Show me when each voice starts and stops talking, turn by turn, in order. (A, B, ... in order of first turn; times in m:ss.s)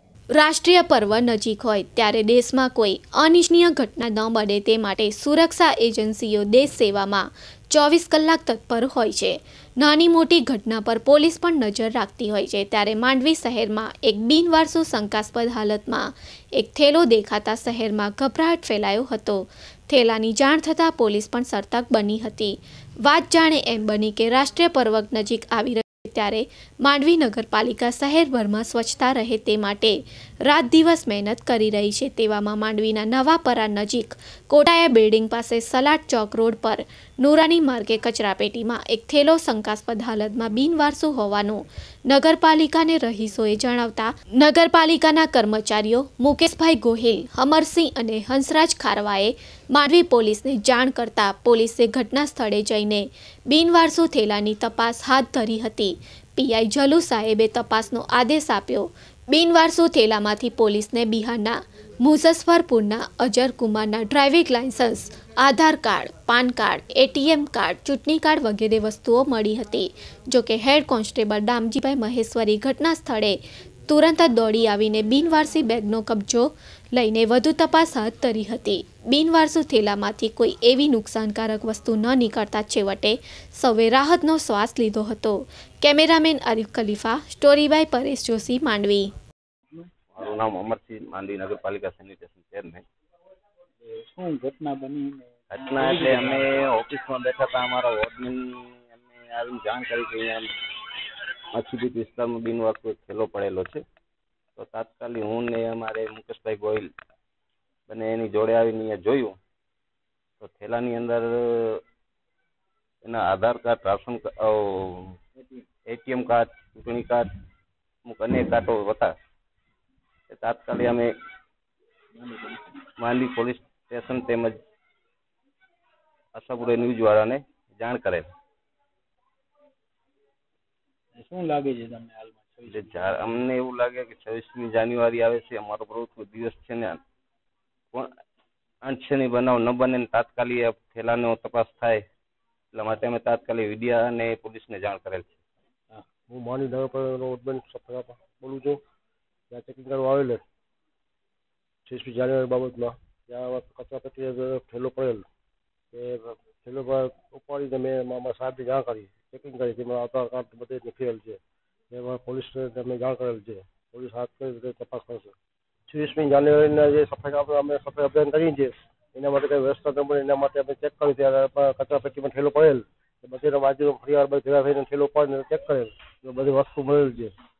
0:00.4-1:13.4 A
1:13.9-1:29.1 A
1:30.1-1:32.8 B
1:33.8-1:36.7 C
1:35.5-1:40.5 B
1:41.5-1:43.8 B
1:44.6-1:46.9 B
1:47.9-1:49.4 B
1:50.4-1:51.8 B
1:53.0-1:55.2 B
1:55.9-1:57.3 B
1:58.0-1:59.2 B
2:00.3-2:01.1 B
2:02.2-2:02.8 C
2:03.0-2:04.6 B
2:06.3-2:08.2 B
2:11.2-2:13.4 C
2:12.7-2:17.0 B
2:18.8-2:22.0 B
2:22.7-2:25.4 B
2:26.3-2:28.8 D
2:29.5-2:30.4 D
2:31.8-2:35.2 D
2:35.9-2:41.4 D
2:41.9-2:45.3 D
2:45.9-2:57.3 D